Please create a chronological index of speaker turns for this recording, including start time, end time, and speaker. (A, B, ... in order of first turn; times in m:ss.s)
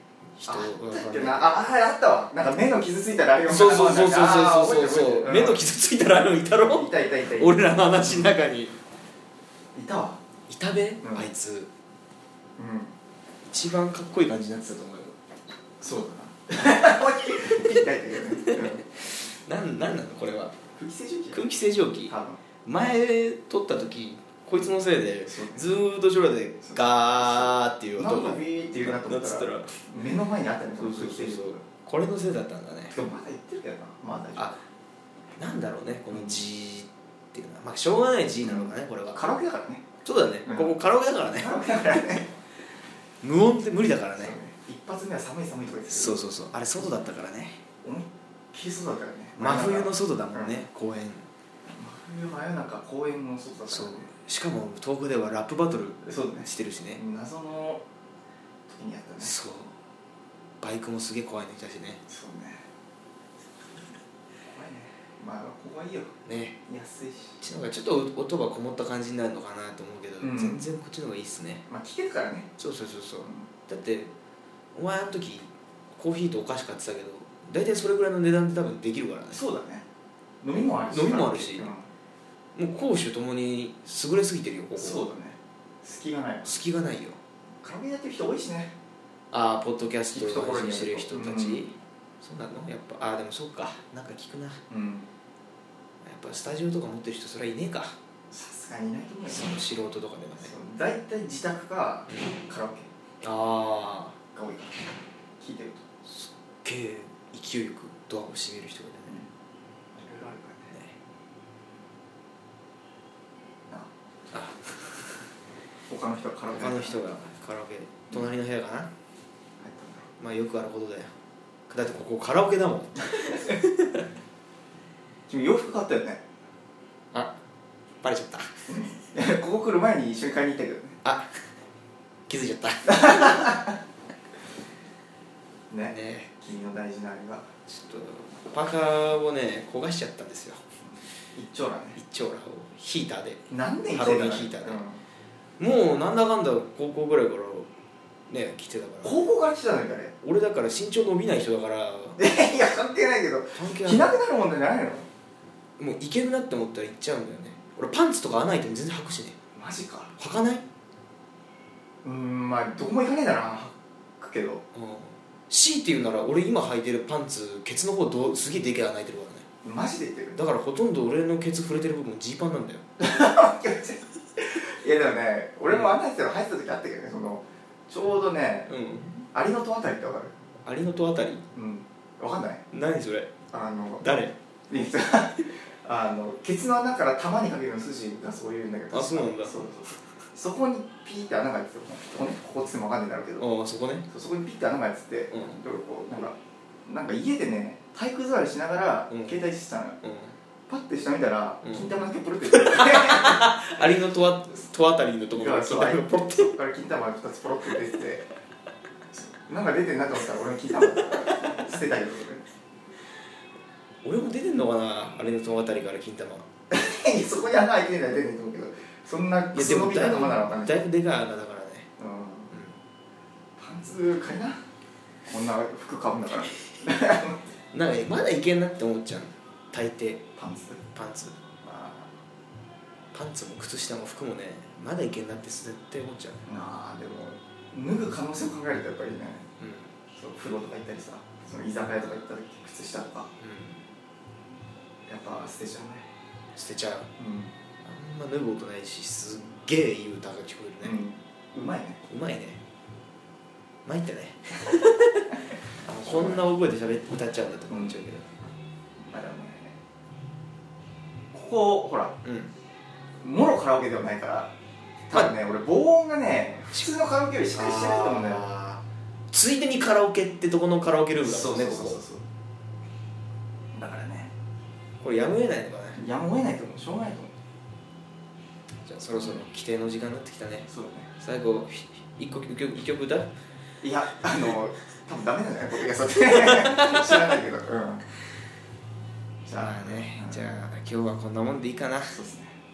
0:00.4-0:01.7 A
0:00.4-0:05.6 B
0:03.4-0:08.7 A
0:06.7-0:08.3 B
0:09.7-0:10.2 B
0:10.5-0:11.7 A
0:11.0-0:11.3 B
0:12.6-0:12.9 B
0:13.5-0:15.2 A
0:15.8-0:18.9 B
0:18.4-0:20.6 A
0:20.7-0:21.4 B
0:21.3-0:29.9 A
0:22.1-0:22.5 B
0:25.2-0:25.7 B
0:26.6-0:31.7 B
0:30.7-0:33.0 A
0:32.9-0:34.6 B
0:35.4-0:39.2 A
0:36.1-0:36.4 B
0:38.4-0:40.8 B
0:39.9-0:41.6 A
0:41.4-0:42.3 B
0:43.2-0:44.4 A
0:44.2-0:46.3 B
0:45.9-0:47.7 A
0:47.8-0:50.6 B
0:49.4-0:51.2 A
0:51.7-0:54.1 B
0:53.7-0:57.0 A
0:56.0-0:57.8 B
0:58.7-0:59.4 B
0:59.2-0:59.7 A
1:00.6-1:02.0 A
1:02.1-1:02.7 B
1:04.4-1:07.4 B
1:06.2-1:06.6 A
1:07.4-1:11.6 A
1:10.2-1:10.7 B
1:11.7-1:12.5 B
1:12.6-1:14.1 A
1:13.2-1:13.5 B
1:14.7-1:19.4 A
1:19.3-1:19.8 B
1:20.4-1:21.9 B
1:20.5-1:21.7 A
1:22.5-1:25.1 A
1:24.8-1:26.6 B
1:26.4-1:27.2 A
1:27.6-1:28.7 B
1:29.3-1:34.6 A
1:30.1-1:31.7 B
1:34.7-1:35.1 B
1:36.0-1:37.9 A
1:38.3-1:39.6 B
1:39.2-1:40.5 A
1:40.3-1:42.9 B
1:43.2-1:44.2 A
1:44.3-1:45.8 B
1:46.0-1:49.2 A
1:49.9-1:50.7 B
1:50.7-1:50.9 A
1:54.3-1:54.8 A
1:55.9-1:57.2 B
1:56.5-1:58.9 A
1:59.6-2:00.1 B
2:00.2-2:01.1 A
2:01.7-2:04.0 A
2:03.1-2:03.5 B
2:05.3-2:06.2 B
2:08.0-2:08.5 A
2:08.7-2:11.0 B
2:11.0-2:11.3 A
2:12.3-2:13.6 A
2:12.8-2:13.7 B
2:15.7-2:17.5 B
2:15.8-2:16.4 A
2:17.6-2:20.6 A
2:21.3-2:22.0 B
2:21.9-2:24.8 A
2:23.5-2:25.0 B
2:25.6-2:27.7 A
2:28.3-2:29.3 A
2:29.0-2:30.1 B
2:30.2-2:32.2 A
2:32.2-2:35.1 B
2:33.5-2:34.2 A
2:35.8-2:39.4 A
2:39.5-2:40.1 B
2:40.2-2:40.6 A
2:42.0-2:44.6 B
2:44.7-2:49.4 A
2:49.6-2:50.4 B
2:50.3-2:52.8 A
2:53.0-2:58.7 B
2:55.7-2:56.0 A
2:58.7-2:59.2 A
2:59.3-3:00.4 B
3:00.6-3:01.4 A
3:01.5-3:02.6 B
3:02.7-3:03.4 A
3:03.4-3:04.0 B
3:04.0-3:04.3 A
3:04.7-3:13.5 B
3:08.9-3:09.9 A
3:13.4-3:14.1 A
3:14.1-3:20.0 B
3:15.3-3:15.6 A
3:19.1-3:19.4 A
3:20.0-3:20.3 A
3:20.7-3:23.9 B
3:21.6-3:21.9 A
3:22.4-3:26.6 A
3:25.3-3:28.2 B
3:29.1-3:32.4 B
3:30.7-3:31.8 A
3:34.0-3:36.5 A
3:36.7-3:40.8 B
3:39.5-3:41.9 A
3:42.0-3:42.5 B
3:42.5-3:42.8 A
3:43.6-3:44.6 B
3:45.2-3:47.4 B
3:47.7-3:50.3 A
3:50.3-3:50.9 B
3:50.9-3:51.4 A
3:51.6-3:52.1 B
3:53.1-3:56.5 A
3:56.4-3:59.5 B
3:59.6-3:59.9 A
4:00.1-4:03.3 B
4:03.4-4:03.8 A
4:05.1-4:06.1 B
4:06.5-4:07.1 A
4:07.2-4:07.5 B
4:07.8-4:11.0 A
4:10.8-4:12.0 B
4:12.0-4:12.6 A
4:13.8-4:18.3 A
4:16.0-4:16.5 B
4:17.7-4:18.0 B
4:19.0-4:19.8 B
4:21.3-4:22.1 B
4:22.2-4:22.5 A
4:23.2-4:24.5 B
4:25.1-4:28.5 B
4:27.5-4:32.0 A
4:31.2-4:32.2 B
4:33.7-4:34.3 B
4:35.0-4:36.0 A
4:35.9-4:37.3 B
4:38.8-4:43.3 A
4:39.1-4:39.4 B
4:40.6-4:41.1 B
4:43.8-4:48.0 B
4:46.3-4:47.4 A
4:49.4-4:50.5 B
4:49.6-4:52.2 A
4:52.1-4:52.6 B